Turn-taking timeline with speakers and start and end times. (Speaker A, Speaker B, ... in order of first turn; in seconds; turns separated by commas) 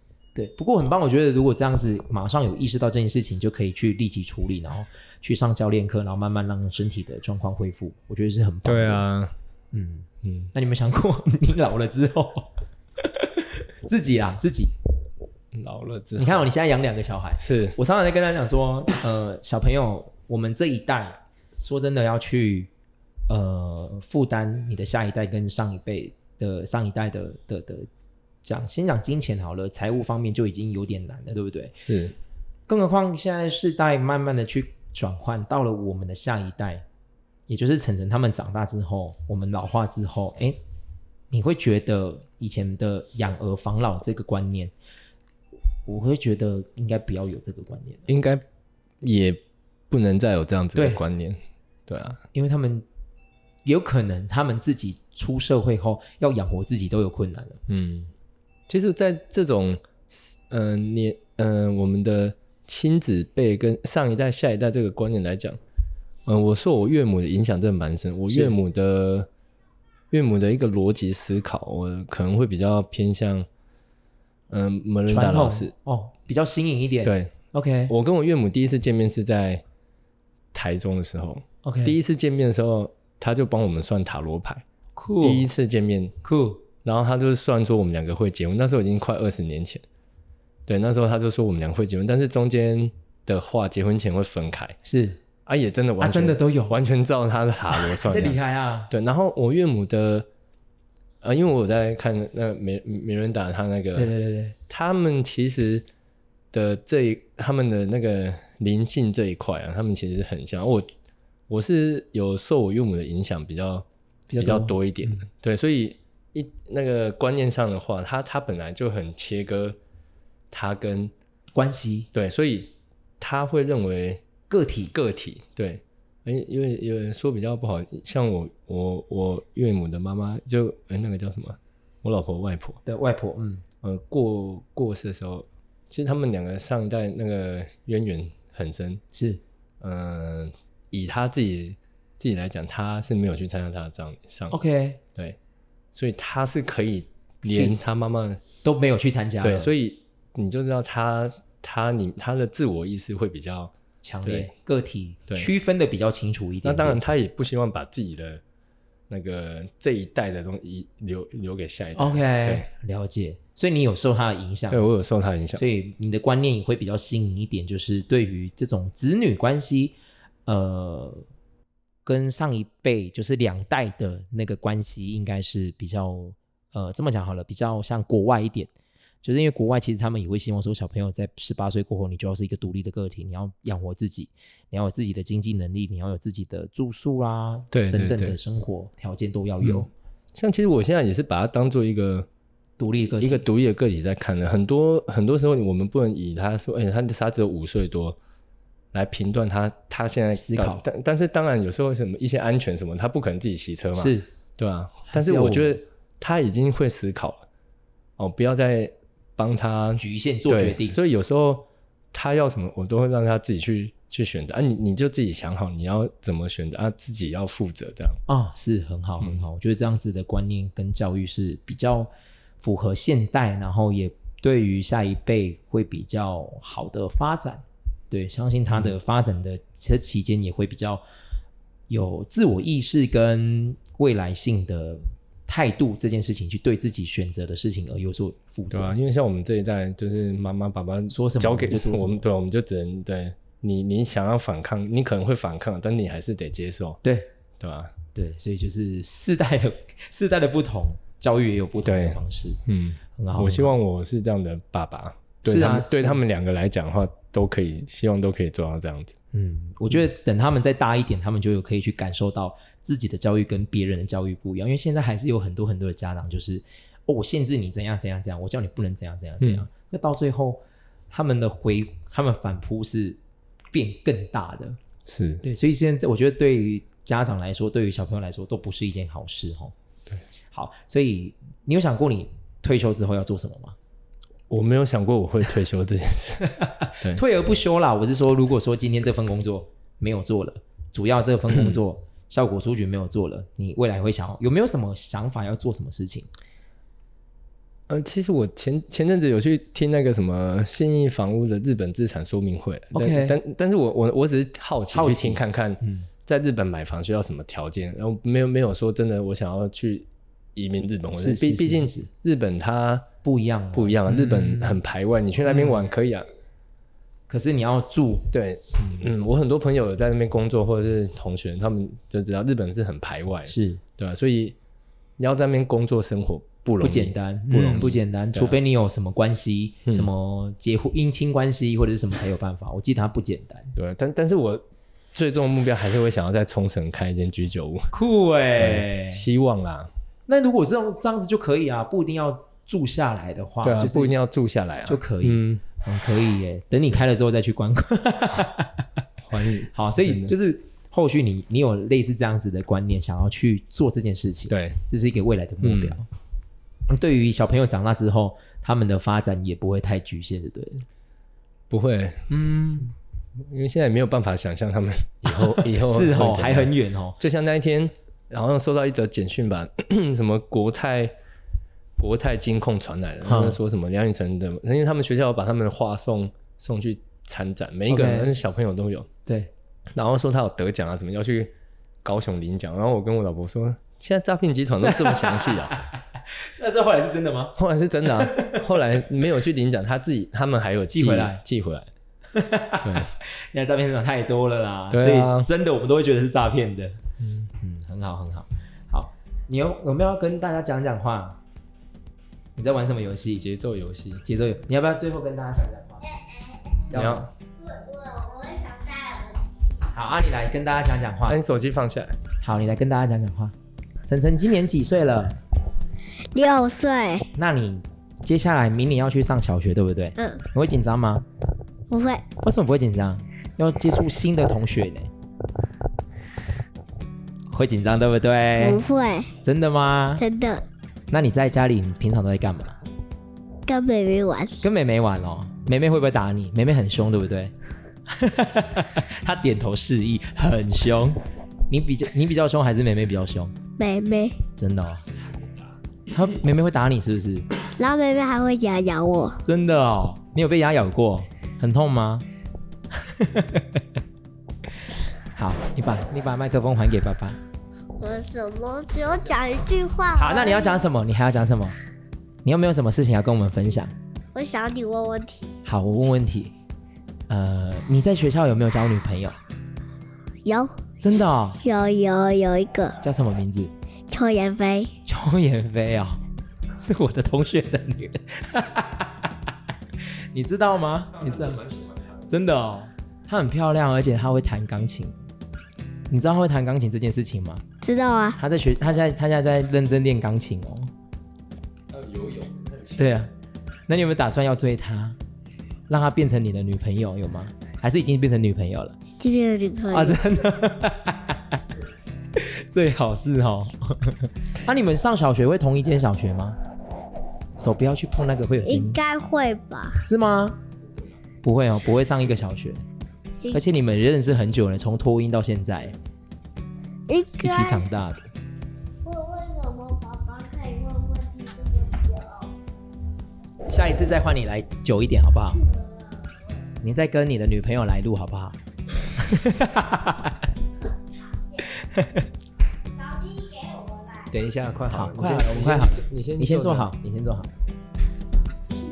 Speaker A: 0.3-9.1, Speaker B: 8.6-9.3, Speaker A: 9.7-12.5, Speaker B: 10.2-10.5, Speaker A: 13.0-14.7, Speaker B: 15.5-16.5, Speaker A: 16.2-22.7, Speaker B: 17.4-17.8, Speaker A: 23.3-27.9, Speaker A: 28.4-31.8, Speaker B: 31.8-32.1, Speaker A: 32.7-36.8, Speaker A: 37.5-40.6, Speaker A: 41.3-44.7, Speaker A: 45.9-48.1, Speaker B: 48.1-48.4, Speaker B: 49.0-52.2, Speaker A: 50.7-51.0, Speaker A: 52.3-52.9, Speaker A: 53.6-57.6, Speaker B: 57.7-58.1, Speaker B: 58.7-65.6, Speaker B: 66.2-69.3, Speaker A: 68.3-68.5, Speaker B: 70.1-73.5, Speaker B: 74.5-75.7, Speaker A: 75.1-77.9, Speaker B: 77.0-77.3, Speaker B: 77.9-79.6, Speaker B: 80.5-84.6, Speaker A: 81.6-82.0, Speaker A: 85.0-85.5, Speaker B: 85.2-86.2, Speaker A: 86.2-86.6, Speaker B: 86.8-89.8, Speaker B: 90.7-94.8, Speaker A: 94.8-95.2, Speaker B: 95.5-98.4, Speaker A: 96.0-96.8, Speaker A: 97.7-98.9, Speaker B: 98.9-100.3, Speaker B: 101.2-104.1, Speaker A: 103.9-104.5, Speaker B: 104.7-105.8, Speaker B: 106.5-110.9, Speaker B: 111.5-113.8, Speaker A: 114.3-115.2, Speaker B: 114.4-119.8, Speaker B: 120.5-121.1, Speaker A: 121.5-122.1, Speaker B: 122.1-124.2, Speaker A: 124.5-124.9, Speaker B: 124.9-132.8, Speaker A: 132.8-133.6, Speaker B: 133.8-139.0, Speaker A: 139.1-139.4, Speaker B: 139.8-144.6, Speaker A: 144.5-145.0, Speaker B: 145.9-148.4, Speaker A: 147.4-147.8, Speaker A: 148.6-149.7, Speaker B: 149.4-153.7, Speaker A: 154.0-157.0, Speaker B: 154.2-154.5, Speaker B: 156.6-158.4, Speaker B: 159.1-162.7, Speaker A: 161.9-164.8, Speaker B: 164.7-165.6, Speaker A: 165.5-171.2, Speaker A: 172.0-178.7, Speaker A: 179.2-189.9, Speaker B: 187.7-188.4, Speaker B: 189.6-192.3, Speaker A: 192.8-193.4, Speaker B: 193.2-198.2, Speaker B: 198.9-207.4, Speaker A: 200.3-200.8, Speaker A: 203.9-204.3, Speaker A: 205.1-205.8, Speaker B: 208.2-218.2, Speaker A: 210.0-211.0, Speaker A: 218.3-231.0, Speaker B: 219.2-219.4, Speaker A: 231.9-238.9, Speaker B: 238.7-247.0, Speaker A: 241.1-242.2, Speaker B: 247.6-247.9, Speaker A: 248.1-252.6, Speaker B: 251.8-259.1, Speaker A: 253.1-253.7, Speaker A: 255.4-256.2, Speaker A: 259.3-273.2, Speaker B: 269.4-269.6, Speaker A: 273.7-274.8, Speaker B: 275.0-275.4, Speaker A: 275.4-279.7, Speaker A: 280.5-283.8, Speaker B: 284.5-286.4, Speaker A: 286.5-296.3, Speaker B: 291.5-291.8, Speaker B: 297.9-313.1, Speaker A: 302.9-303.4, Speaker A: 304.9-306.1, Speaker A: 311.2-312.1, Speaker A: 313.2-314.8, Speaker B: 313.7-316.3, Speaker A: 317.3-319.1, Speaker B: 318.3-324.6, Speaker A: 323.5-323.8, Speaker B: 325.2-328.6, Speaker A: 326.8-333.7, Speaker B: 333.7-337.9, Speaker A: 337.9-339.2, Speaker B: 338.6-339.9, Speaker A: 340.3-344.1, Speaker B: 343.6-345.6, Speaker A: 344.9-348.9, Speaker B: 349.2-350.3, Speaker A: 349.7-356.1, Speaker B: 354.5-354.8, Speaker B: 355.6-356.0, Speaker A: 356.9-360.9, Speaker B: 361.7-362.3, Speaker A: 362.3-362.9, Speaker B: 363.4-371.1, Speaker A: 365.3-367.2, Speaker B: 372.0-379.1, Speaker A: 373.2-373.6, Speaker A: 377.9-378.3, Speaker A: 379.2-379.5, Speaker B: 379.9-385.8, Speaker A: 384.8-388.6, Speaker B: 387.6-391.9, Speaker A: 390.9-391.4, Speaker A: 392.3-397.0, Speaker B: 392.8-393.1, Speaker B: 394.9-395.5, Speaker B: 397.2-397.5, Speaker A: 397.5-401.4, Speaker A: 402.6-403.4, Speaker B: 403.4-404.2, Speaker A: 404.2-406.0, Speaker C: 406.1-406.8, Speaker A: 406.9-407.3, Speaker B: 406.9-407.3, Speaker C: 407.6-409.8, Speaker A: 409.9-411.4, Speaker B: 411.2-412.2, Speaker A: 412.4-413.5, Speaker A: 414.1-415.4, Speaker C: 416.3-417.3, Speaker A: 417.3-421.2, Speaker C: 420.2-420.4, Speaker C: 421.9-422.3, Speaker A: 422.4-425.1, Speaker A: 427.5-428.8, Speaker C: 428.6-429.3, Speaker A: 429.4-430.2, Speaker C: 430.2-430.6, Speaker A: 431.1-432.8, Speaker C: 433.7-434.6, Speaker A: 434.6-437.5, Speaker A: 438.1-443.5, Speaker C: 443.8-444.4, Speaker A: 444.6-445.1, Speaker A: 446.1-447.5, Speaker C: 447.8-449.4, Speaker A: 449.4-452.2, Speaker A: 452.9-453.8, Speaker A: 455.3-457.4, Speaker C: 458.0-460.9, Speaker A: 460.2-461.8, Speaker A: 462.4-463.9, Speaker C: 464.3-465.6, Speaker A: 465.6-466.5, Speaker A: 467.3-469.4, Speaker C: 470.4-470.7, Speaker A: 471.0-471.6, Speaker C: 471.6-473.0, Speaker A: 473.0-473.7, Speaker C: 474.1-474.9, Speaker A: 475.0-476.2, Speaker A: 476.7-479.4, Speaker A: 480.3-481.6, Speaker B: 481.2-482.3, Speaker A: 482.3-485.2, Speaker A: 486.1-487.6, Speaker C: 487.8-488.4, Speaker A: 488.4-490.9, Speaker B: 491.9-493.2, Speaker A: 493.0-493.3, Speaker A: 493.9-495.2, Speaker A: 495.9-499.0, Speaker C: 499.2-500.2, Speaker A: 499.9-501.6, Speaker A: 502.4-506.6, Speaker A: 507.6-509.0, Speaker C: 508.6-510.1, Speaker A: 510.1-510.6, Speaker A: 511.4-512.8, Speaker A: 513.5-516.0, Speaker C: 517.1-517.8, Speaker A: 517.4-518.3, Speaker C: 519.0-522.5, Speaker A: 523.7-525.6, Speaker C: 525.6-526.3, Speaker A: 526.8-528.6, Speaker A: 529.1-530.4, Speaker A: 531.8-532.2, Speaker C: 532.9-534.3, Speaker B: 534.3-536.9, Speaker A: 534.9-537.5